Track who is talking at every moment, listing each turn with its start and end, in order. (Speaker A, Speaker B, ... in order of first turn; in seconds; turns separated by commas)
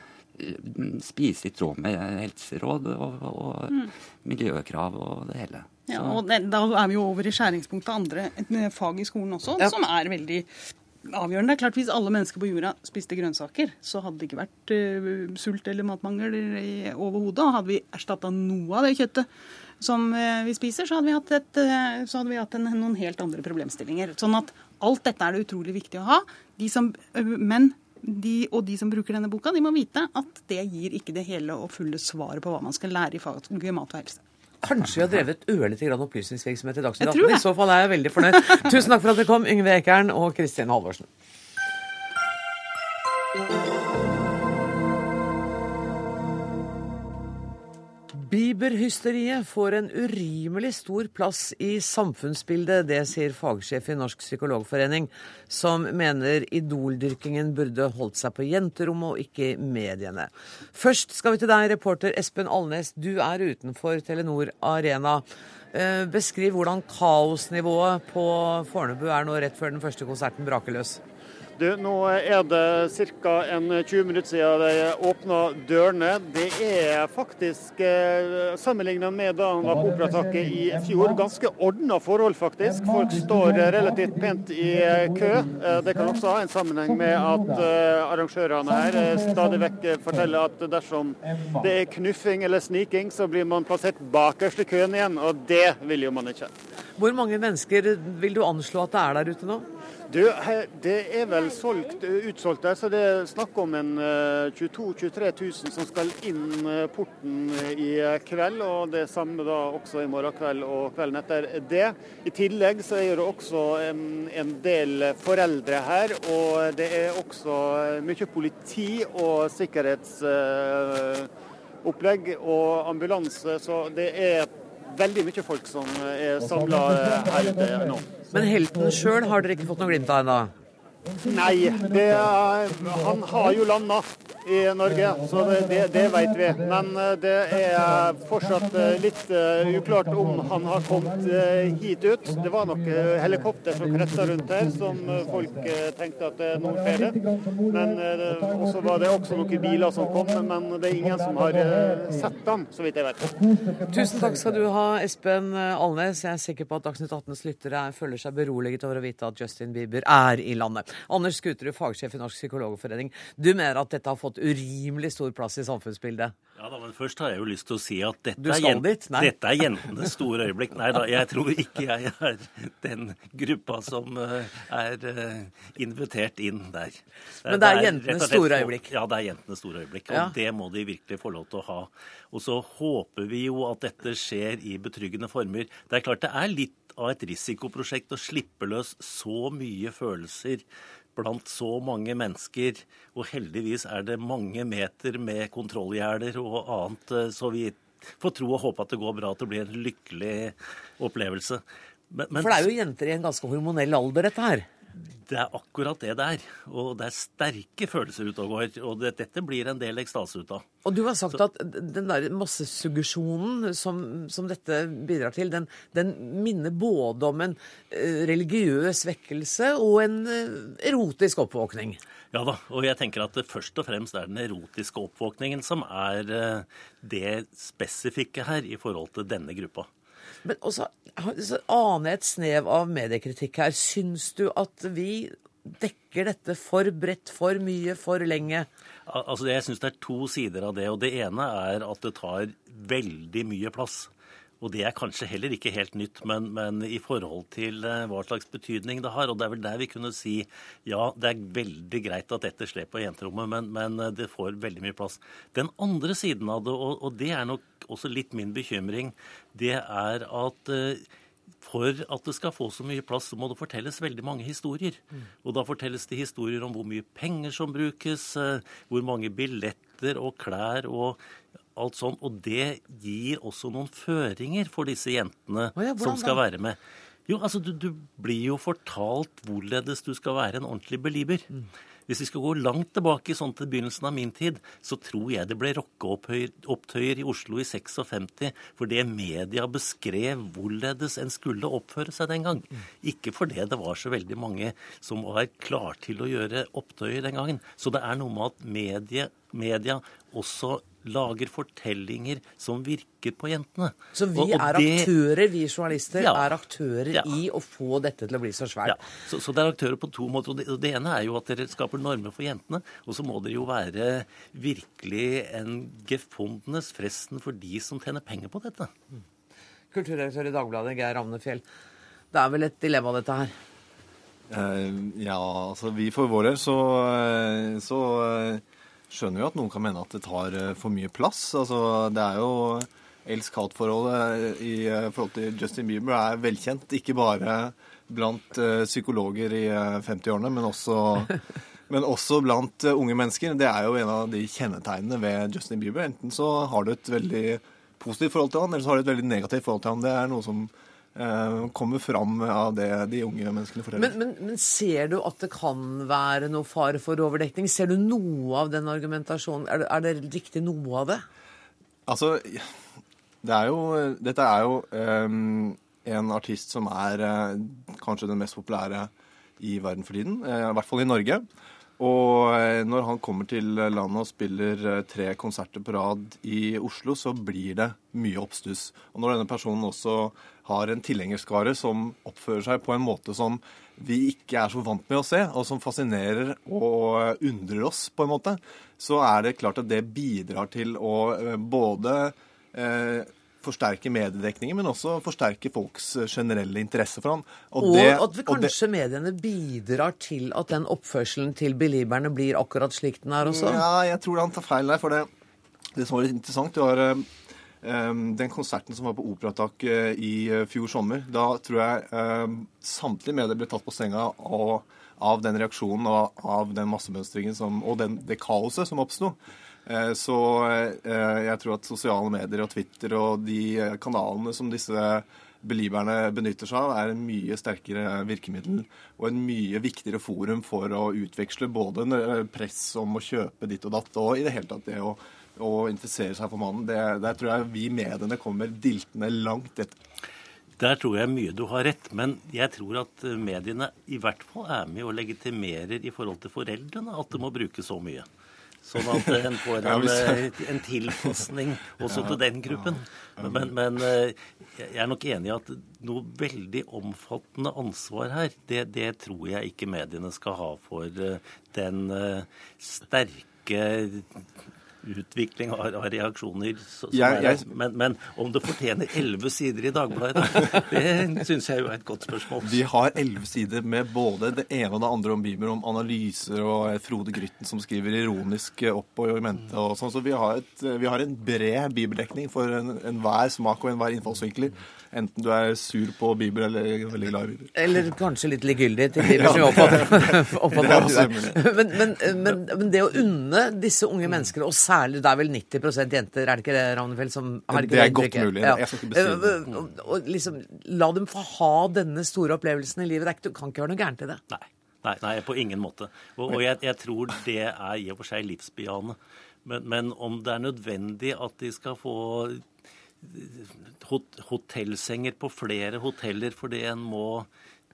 Speaker A: 0.4-6.2, Speaker B: 5.9-10.5, Speaker B: 11.1-19.3, Speaker B: 19.8-34.2, Speaker C: 34.6-41.1, Speaker B: 37.0-37.4, Speaker C: 48.1-71.0, Speaker D: 71.6-96.5, Speaker C: 97.0-99.7, Speaker D: 100.1-121.3, Speaker D: 121.8-128.2, Speaker C: 128.3-130.5, Speaker D: 131.2-153.5, Speaker C: 153.8-166.3, Speaker E: 166.6-190.6, Speaker C: 168.4-169.3, Speaker C: 177.5-178.9, Speaker E: 191.1-202.7, Speaker C: 202.3-204.7, Speaker E: 205.1-210.6, Speaker C: 210.8-222.0, Speaker E: 222.3-229.9, Speaker C: 230.4-238.7, Speaker E: 239.1-244.1, Speaker E: 244.6-261.1, Speaker E: 261.6-271.2, Speaker E: 271.7-281.5, Speaker C: 275.8-276.4, Speaker E: 282.1-305.1, Speaker C: 304.1-309.0, Speaker E: 306.1-306.6, Speaker E: 307.1-307.4, Speaker E: 308.8-318.9, Speaker C: 319.9-321.6, Speaker C: 322.3-323.5, Speaker F: 324.5-341.4, Speaker F: 341.9-354.1, Speaker C: 353.9-361.2, Speaker F: 362.1-362.7, Speaker F: 363.4-371.4, Speaker F: 372.0-398.7, Speaker C: 397.8-403.9, Speaker F: 403.4-405.3, Speaker F: 405.9-407.3, Speaker F: 407.8-439.9, Speaker E: 440.8-448.3, Speaker E: 448.8-464.4, Speaker F: 449.8-450.5, Speaker F: 452.0-453.7, Speaker E: 465.0-472.8, Speaker F: 467.1-467.7, Speaker F: 472.6-487.7, Speaker C: 487.8-504.4, Speaker F: 489.2-491.6, Speaker F: 497.7-499.6, Speaker E: 504.5-512.6, Speaker E: 513.2-517.5